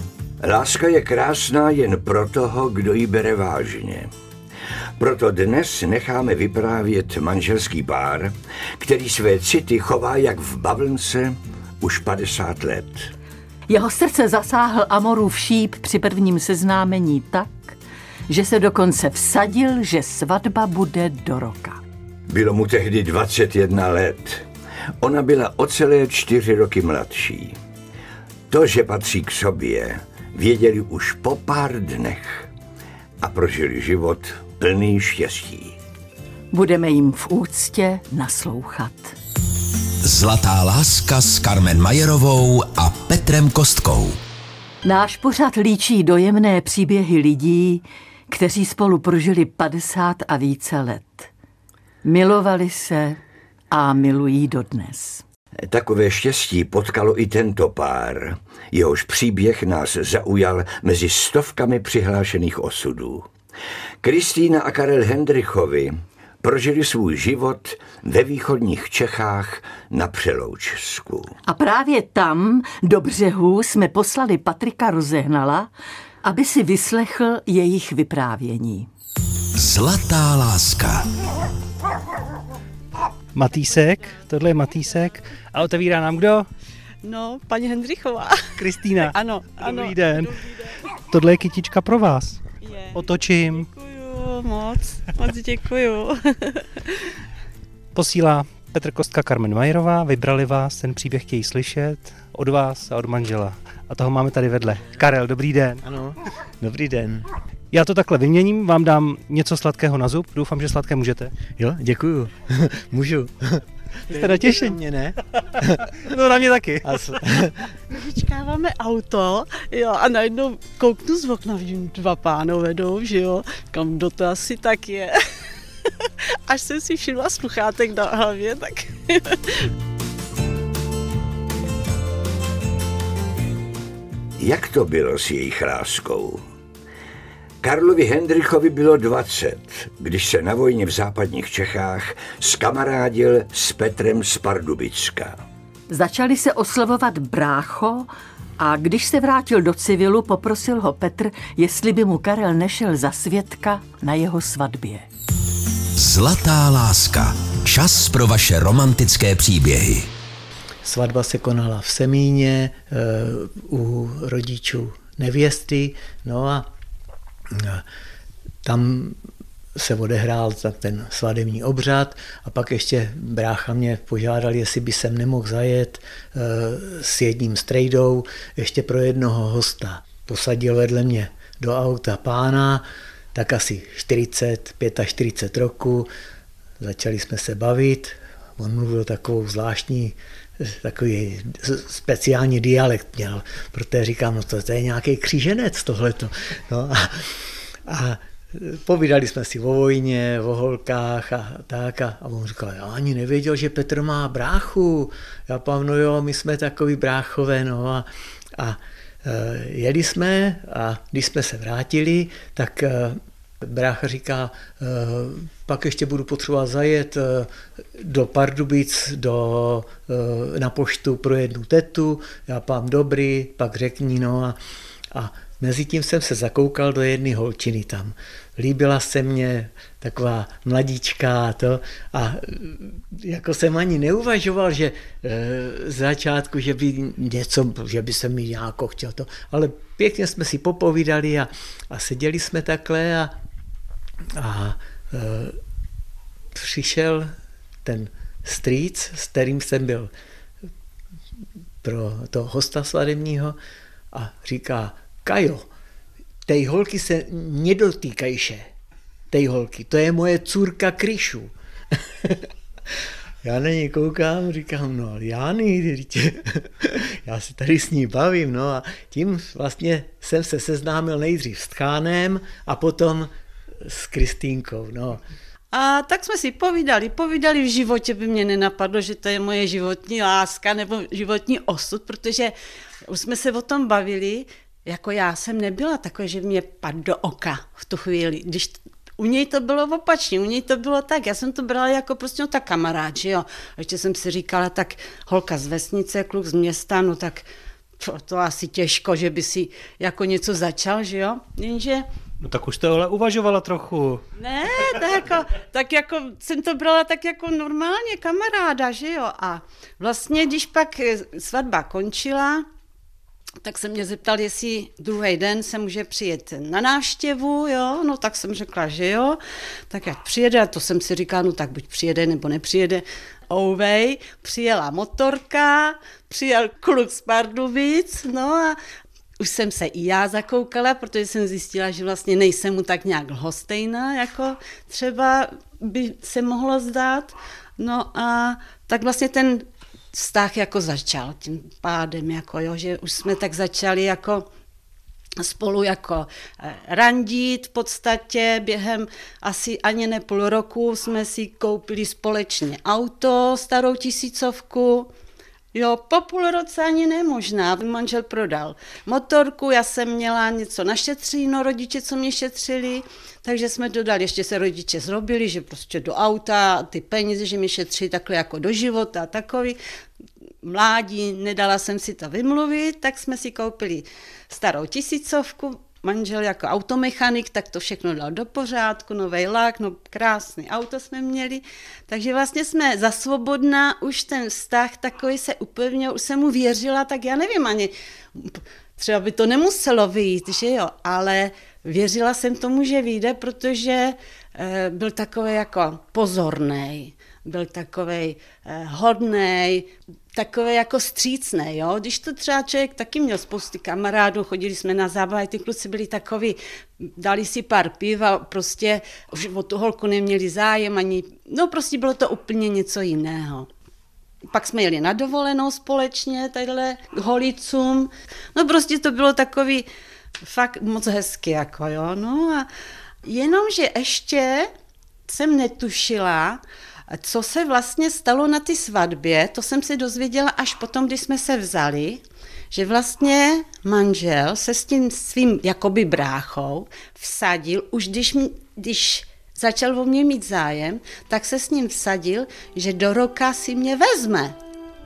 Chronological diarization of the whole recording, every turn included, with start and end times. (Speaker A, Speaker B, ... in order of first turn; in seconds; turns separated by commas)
Speaker A: 0.4-4.1, Speaker A: 5.0-13.1, Speaker B: 13.7-17.8, Speaker B: 18.3-21.8, Speaker A: 22.3-24.4, Speaker A: 25.0-27.6, Speaker A: 28.5-32.5, Speaker A: 33.2-35.8, Speaker B: 36.5-39.1, Speaker C: 40.0-44.2, Speaker B: 44.8-51.3, Speaker B: 52.0-53.2, Speaker B: 53.7-55.2, Speaker A: 55.7-63.3, Speaker A: 64.0-71.3, Speaker B: 71.5-75.7, Speaker B: 76.2-78.9, Speaker C: 79.5-81.1, Speaker D: 83.3-86.5, Speaker E: 87.0-90.5, Speaker D: 88.6-90.4, Speaker D: 91.1-93.7, Speaker E: 92.6-97.1, Speaker D: 97.9-105.8, Speaker F: 105.8-107.3, Speaker D: 107.7-111.3, Speaker F: 111.5-115.9, Speaker D: 114.1-114.8, Speaker D: 115.6-117.2, Speaker F: 116.8-117.7, Speaker E: 117.9-125.2, Speaker E: 125.8-129.7, Speaker A: 134.4-136.4, Speaker A: 137.6-145.4, Speaker B: 145.9-155.1, Speaker C: 155.9-160.1, Speaker F: 160.8-166.7, Speaker F: 167.5-167.8, Speaker F: 168.6-169.2, Speaker F: 169.7-186.1, Speaker F: 186.8-224.6, Speaker F: 225.1-243.3, Speaker F: 244.3-245.6, Speaker F: 246.5-247.3, Speaker F: 247.8-250.1, Speaker F: 251.8-253.6, Speaker F: 254.1-255.7, Speaker F: 256.4-258.7, Speaker F: 259.3-262.5, Speaker F: 263.4-275.2, Speaker E: 275.7-282.5, Speaker E: 283.1-297.5, Speaker E: 298.0-302.0, Speaker D: 302.4-304.2, Speaker E: 304.4-312.6, Speaker E: 313.6-319.4, Speaker E: 319.9-328.8, Speaker E: 329.4-344.5, Speaker E: 345.4-355.1, Speaker E: 355.7-369.8, Speaker E: 370.6-413.7, Speaker E: 414.5-419.9, Speaker E: 420.4-422.7, Speaker E: 423.2-424.7, Speaker E: 425.3-444.6